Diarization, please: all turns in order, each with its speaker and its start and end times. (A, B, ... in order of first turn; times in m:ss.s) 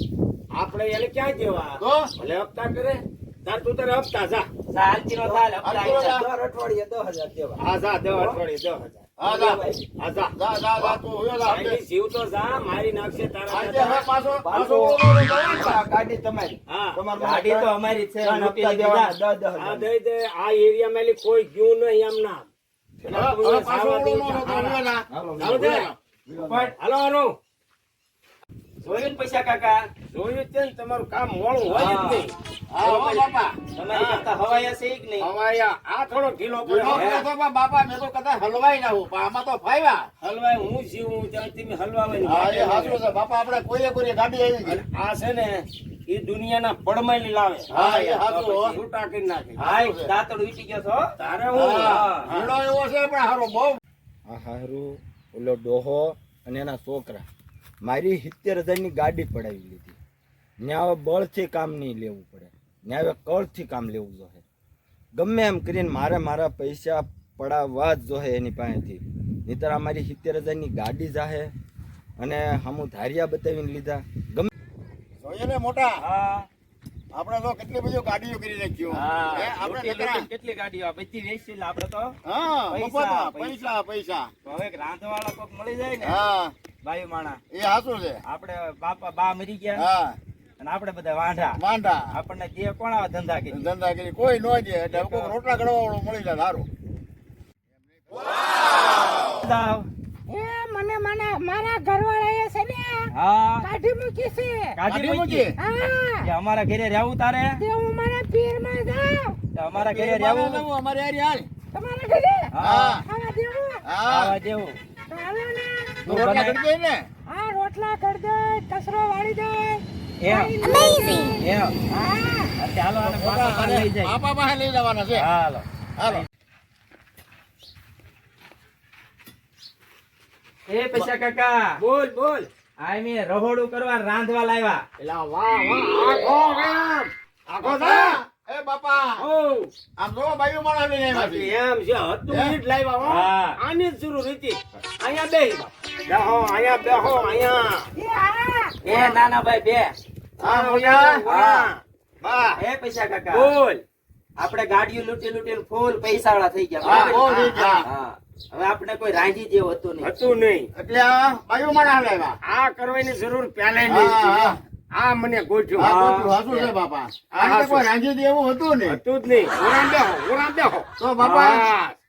0:00.5-0:04.5 A
0:01.8-0:02.1 B
0:04.7-0:06.2 C
0:05.2-0:07.6 D
0:05.6-0:06.2 B
0:07.6-0:09.0 A
0:09.2-0:09.6 B
0:09.2-0:09.8 D
0:10.0-0:14.1 A
0:10.4-0:11.8 B
0:13.5-0:15.8 B
0:14.4-0:19.9 D
0:16.7-0:17.0 A
0:17.1-0:19.1 C
0:19.6-0:22.5 A
0:23.1-0:24.8 A
0:23.1-0:26.0 B
0:25.1-0:26.7 D
0:25.4-0:25.9 A
0:26.4-0:27.3 A
0:28.8-0:29.8 C
0:30.1-0:34.3 A
0:31.7-0:32.2 C
0:32.7-0:33.4 B
0:33.7-0:35.3 C
0:35.2-0:37.2 A
0:36.6-0:40.1 B
0:36.9-0:37.2 C
0:40.2-0:43.0 A
0:42.2-0:44.8 B
0:44.6-0:49.6 A
0:47.7-0:48.8 B
0:49.6-0:51.1 C
0:49.6-0:50.1 B
0:51.2-0:52.5 A
0:51.5-0:53.8 B
0:51.8-0:52.2 C
0:54.3-0:57.2 D
0:57.8-1:00.0 D
1:00.6-1:04.4 D
1:05.2-1:11.5 D
1:12.2-1:14.5 D
1:15.2-1:16.0 B
1:16.0-1:16.5 C
1:17.1-1:20.3 B
1:18.9-1:22.1 C
1:22.2-1:24.3 B
1:22.7-1:23.6 C
1:24.4-1:26.2 C
1:26.0-1:26.5 B
1:26.8-1:27.4 C
1:27.5-1:28.2 B
1:28.2-1:29.8 C
1:29.7-1:30.2 B
1:30.6-1:31.6 C
1:31.6-1:32.1 B
1:32.1-1:33.7 C
1:33.5-1:36.7 B
1:35.0-1:35.3 C
1:39.3-1:39.9 C
1:40.3-1:44.8 E
1:43.1-1:43.7 C
1:44.7-1:45.5 C
1:44.9-1:45.6 B
1:45.6-1:46.2 E
1:46.2-1:47.6 C
1:47.6-1:49.4 E
1:49.5-1:50.6 C
1:49.7-1:51.5 B
1:51.7-1:52.5 E
1:52.5-1:53.0 C
1:52.6-1:53.0 B
1:53.0-1:53.8 E
1:53.8-1:54.4 B
1:54.0-1:54.8 C
1:55.1-1:56.1 E
1:56.0-1:57.1 B
1:56.1-1:56.6 C
1:57.3-2:02.5 E
2:00.2-2:00.6 C
2:01.4-2:01.8 C
2:02.6-2:04.1 C
2:03.0-2:05.3 B
2:05.1-2:05.6 A
2:06.0-2:06.2 B
2:10.7-2:11.8 C
2:11.8-2:12.5 A
2:12.8-2:14.8 C
2:15.0-2:18.2 A
2:17.6-2:19.2 B
2:19.2-2:19.7 A
2:20.0-2:21.5 B
2:21.1-2:27.9 A
2:22.3-2:22.6 B
2:23.0-2:23.6 C
2:28.0-2:28.8 E
2:28.8-2:29.9 C
2:30.4-2:32.6 A
2:30.4-2:31.2 B
2:31.3-2:31.7 C
2:32.6-2:33.5 C
2:33.3-2:33.8 A
2:34.4-2:37.2 C
2:36.8-2:37.8 A
2:36.8-2:37.9 B
2:37.8-2:40.1 C
2:40.0-2:40.7 A
2:40.8-2:42.4 B
2:42.4-2:46.7 A
2:43.8-2:44.6 B
2:45.8-2:49.0 B
2:45.8-2:46.3 C
2:47.3-2:47.9 A
2:48.9-2:51.9 A
2:51.0-2:51.7 B